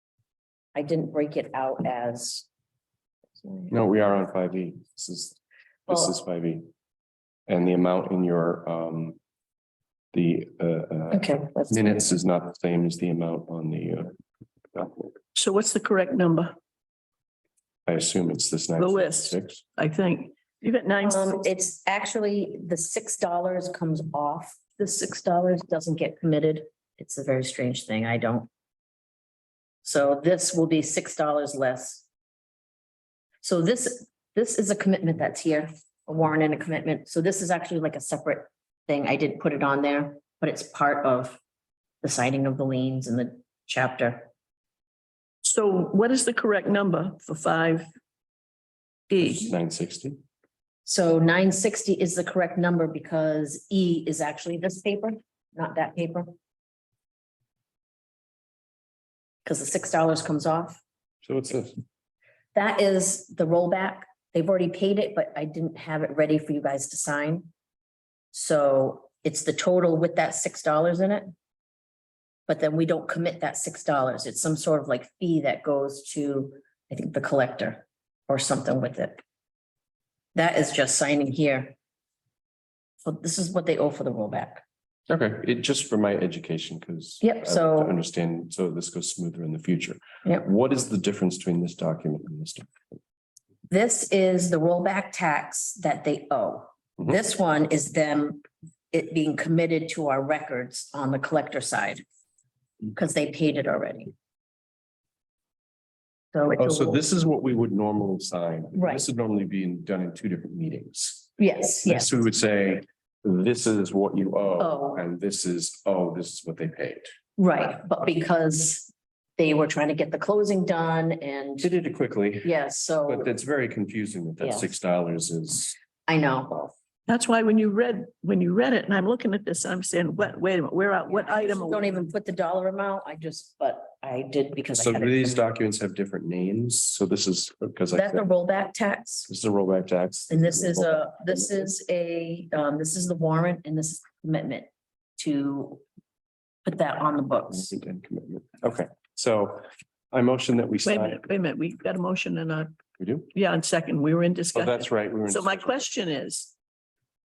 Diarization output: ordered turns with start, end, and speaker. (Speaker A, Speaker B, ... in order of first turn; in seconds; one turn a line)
Speaker A: 0.7-2.5
Speaker A: 3.4-3.8
Speaker B: 3.7-6.7
Speaker B: 7.5-9.2
Speaker B: 10.1-14.2
Speaker A: 11.1-11.9
Speaker B: 14.7-15.1
Speaker C: 15.3-16.5
Speaker B: 17.9-19.6
Speaker C: 18.8-21.4
Speaker A: 21.0-28.5
Speaker A: 29.8-32.0
Speaker A: 33.4-41.4
Speaker A: 42.0-44.3
Speaker C: 45.4-47.9
Speaker C: 49.1-49.5
Speaker B: 49.2-50.2
Speaker A: 50.8-56.3
Speaker A: 59.4-60.8
Speaker B: 61.2-61.8
Speaker A: 62.5-67.5
Speaker A: 68.3-71.3
Speaker A: 72.5-79.2
Speaker A: 80.3-81.7
Speaker A: 83.0-84.6
Speaker B: 85.1-92.7
Speaker A: 87.2-88.0
Speaker A: 93.7-102.0
Speaker A: 102.9-104.1
Speaker A: 106.3-107.0
Speaker B: 106.6-111.3
Speaker A: 108.7-109.0
Speaker A: 111.4-112.3
Speaker B: 111.8-117.1
Speaker A: 114.6-115.0
Speaker A: 117.4-121.7
Speaker B: 121.6-122.5
Speaker A: 122.4-123.3
Speaker B: 123.0-125.8
Speaker A: 124.4-124.7
Speaker A: 126.1-126.5
Speaker C: 127.1-132.1
Speaker A: 131.1-135.4
Speaker B: 134.8-138.2
Speaker A: 137.9-139.3
Speaker B: 139.3-141.5
Speaker A: 140.3-145.8
Speaker A: 146.6-147.7
Speaker B: 147.5-151.2
Speaker C: 150.8-152.8
Speaker B: 153.0-153.3
Speaker C: 153.3-156.5
Speaker B: 154.5-155.8